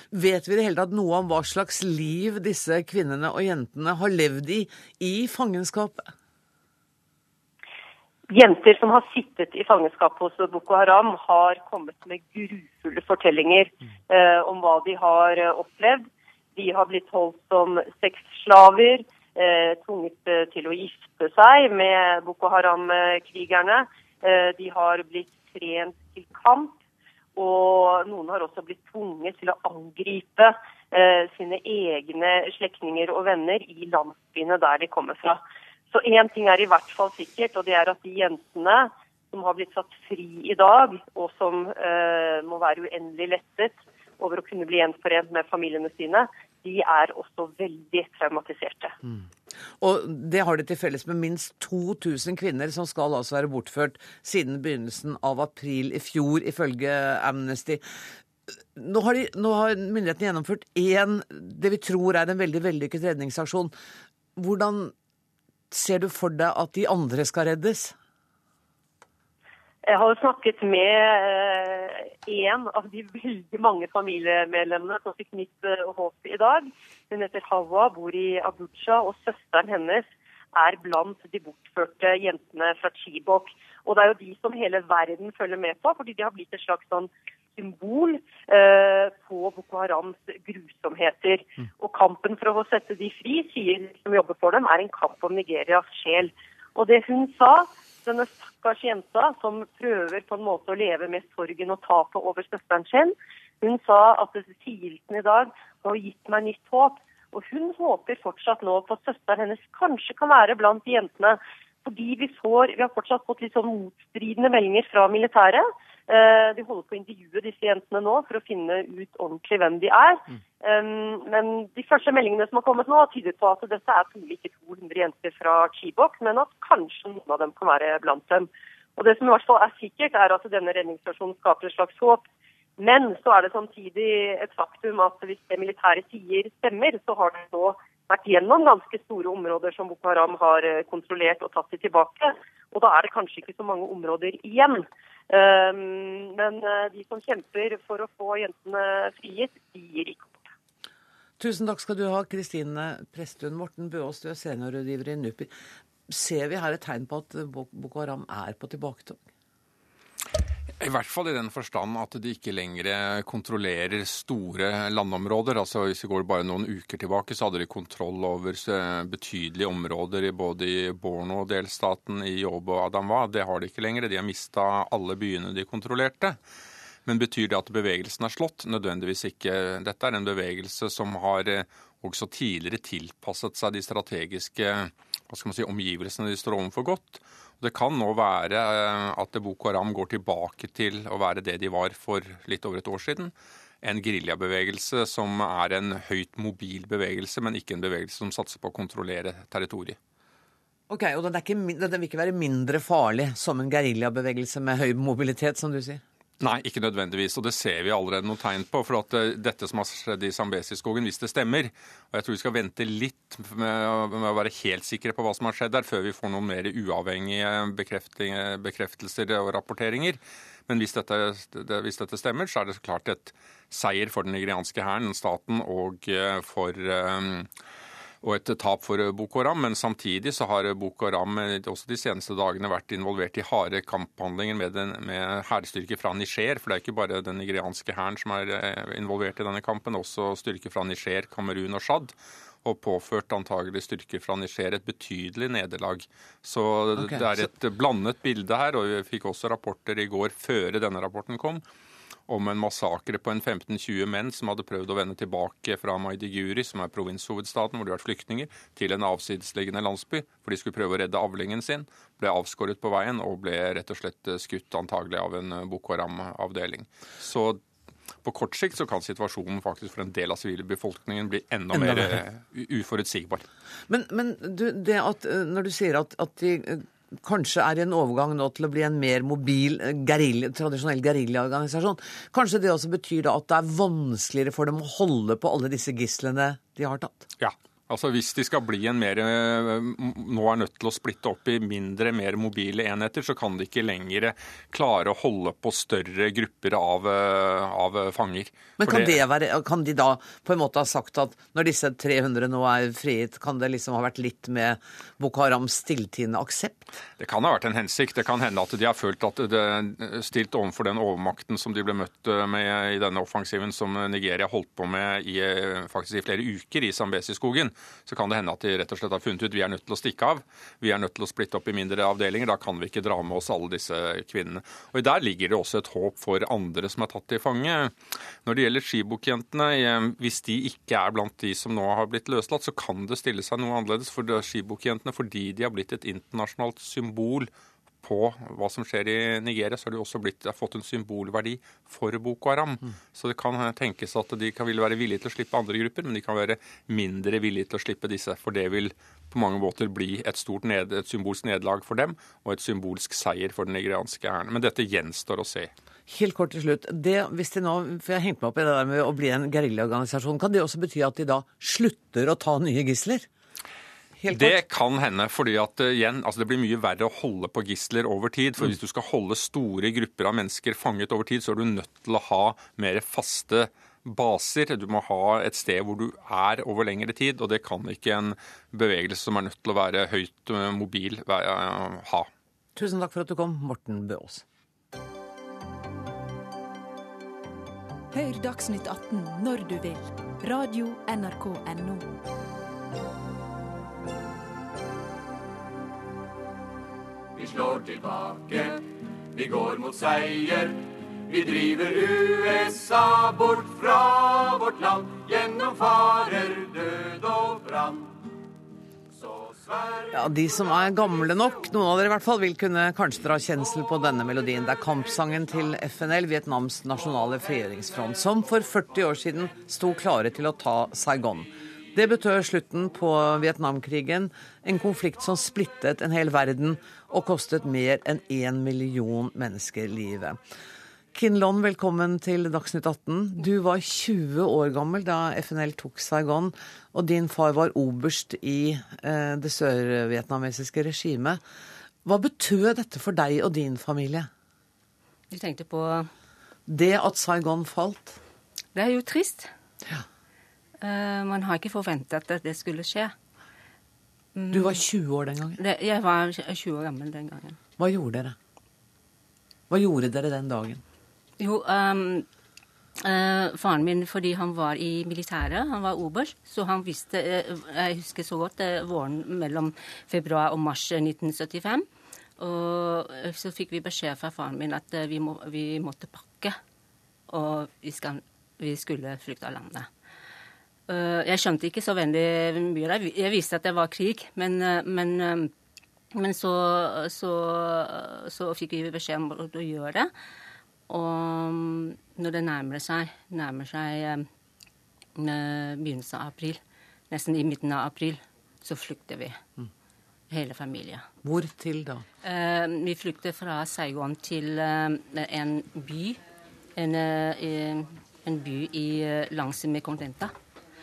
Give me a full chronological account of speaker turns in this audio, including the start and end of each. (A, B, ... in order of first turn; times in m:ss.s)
0:00.1-0:06.1 A
0:08.3-0:26.8 B
0:27.4-0:35.4 B
0:35.9-0:49.0 B
0:49.8-0:57.8 A
0:58.7-1:03.7 A
1:04.4-1:04.9 A
1:05.7-1:07.9 A
1:09.8-2:12.2 B
2:12.8-2:30.5 B
2:31.4-2:35.5 A
2:36.1-2:39.2 A
2:40.8-2:56.4 C
2:57.0-3:20.0 C
3:20.9-3:26.0 A
3:26.4-3:47.5 C
3:48.2-4:11.6 C
4:12.3-4:27.6 C
4:28.2-4:33.4 C
4:31.7-4:32.2 A
4:33.9-4:47.2 A
4:47.4-4:59.2 C
4:58.8-5:06.9 A
5:07.2-5:37.5 C
5:38.0-5:55.7 C
5:56.1-6:03.3 A
6:04.2-6:04.6 A
6:04.3-6:22.3 C
6:22.7-6:24.4 A
6:28.1-6:32.1 D
6:37.4-6:48.1 E
6:50.1-7:10.4 A
7:11.1-7:21.4 A
7:22.0-7:24.3 A
7:25.3-7:26.1 F
7:26.7-7:28.2 A
7:28.7-7:29.5 F
7:30.8-7:33.1 F
7:34.3-7:34.8 F
7:34.5-7:35.6 A
7:35.6-7:37.6 F
7:37.8-7:38.3 A
7:39.7-7:40.8 A
7:41.4-7:42.2 F
7:43.0-7:51.8 F
7:52.4-7:56.6 F
7:57.3-7:59.9 F
8:00.9-8:05.5 F
8:06.1-8:10.1 F
8:10.9-8:14.2 F
8:15.2-8:16.6 F
8:17.1-8:19.4 F
8:20.3-8:21.0 F
8:21.2-8:22.0 A
8:22.2-8:26.2 F
8:26.8-8:30.3 F